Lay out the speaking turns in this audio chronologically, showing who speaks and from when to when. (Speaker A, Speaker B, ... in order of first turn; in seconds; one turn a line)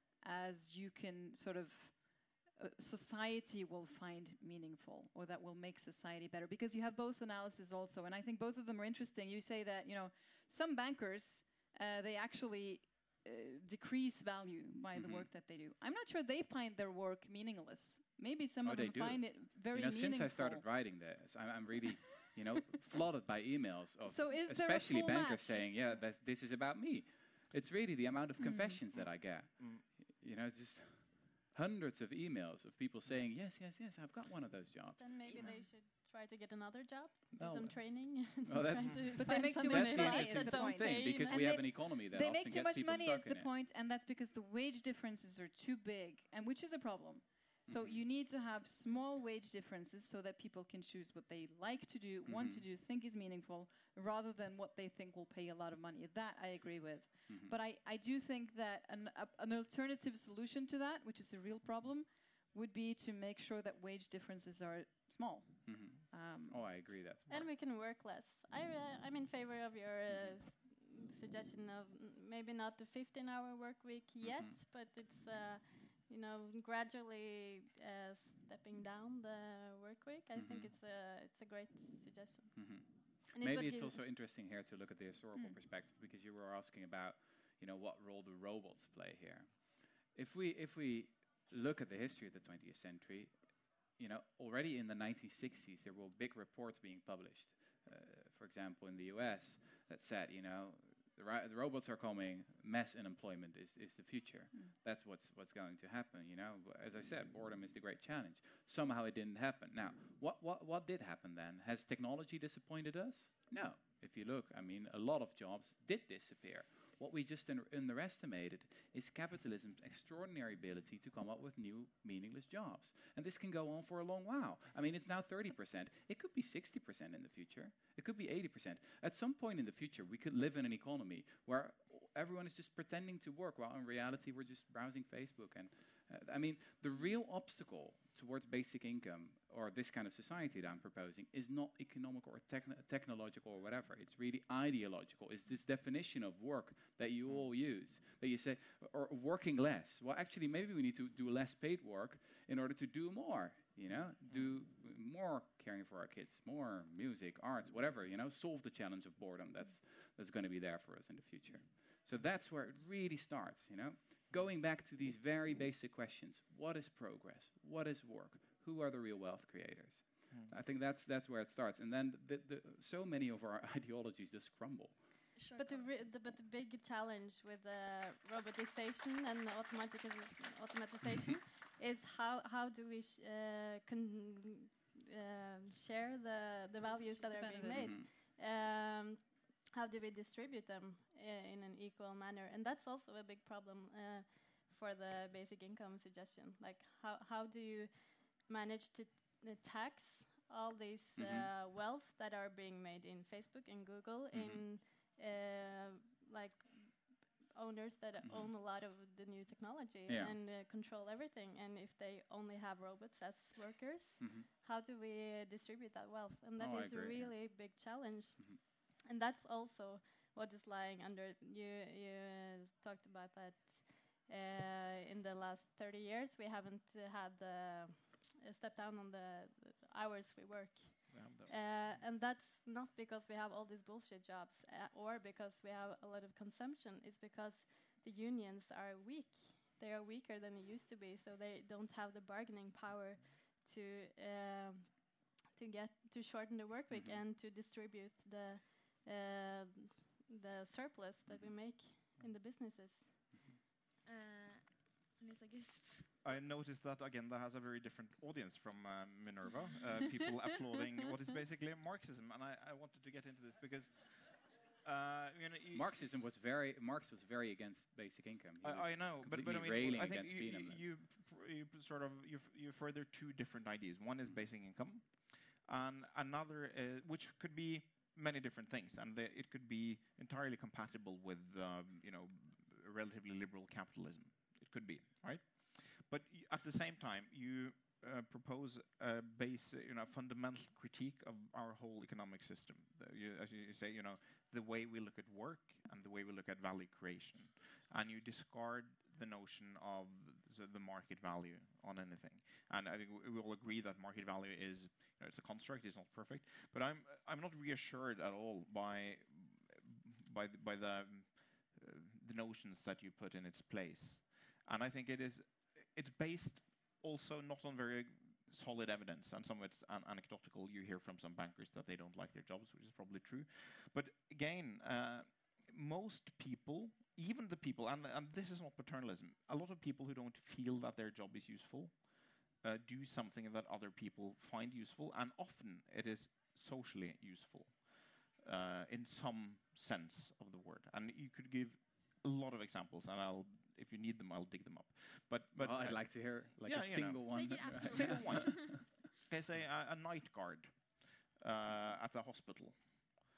Speaker A: 0.2-20.6
Speaker B: 14.9-15.3
Speaker B: 18.6-35.4
Speaker A: 24.0-25.7
Speaker A: 28.4-28.8
Speaker C: 28.9-29.8
Speaker D: 35.0-41.6
Speaker E: 35.2-35.6
Speaker A: 35.4-35.7
Speaker B: 37.3-43.5
Speaker C: 38.8-39.0
Speaker A: 39.1-66.9
Speaker B: 47.7-48.0
Speaker B: 52.2-52.6
Speaker B: 57.3-57.5
Speaker B: 65.7-67.5
Speaker D: 67.3-84.0
Speaker B: 70.1-70.3
Speaker B: 74.2-74.6
Speaker B: 80.3-80.7
Speaker B: 82.5-175.2
Speaker C: 154.3-154.5
Speaker C: 170.3-170.6
Speaker E: 175.3-176.1
Speaker D: 175.6-253.4
Speaker A: 186.8-188.0
Speaker B: 187.7-188.1
Speaker B: 201.2-201.5
Speaker B: 204.3-204.7
Speaker B: 208.2-208.5
Speaker B: 210.1-210.4
Speaker B: 214.2-214.5
Speaker B: 216.6-217.6
Speaker C: 231.1-231.6
Speaker B: 246.9-247.2
Speaker B: 251.3-251.5
Speaker B: 253.3-253.6
Speaker E: 254.0-256.1
Speaker C: 256.2-265.9
Speaker B: 265.7-270.8
Speaker C: 268.6-352.8
Speaker B: 345.5-349.0
Speaker E: 347.3-348.8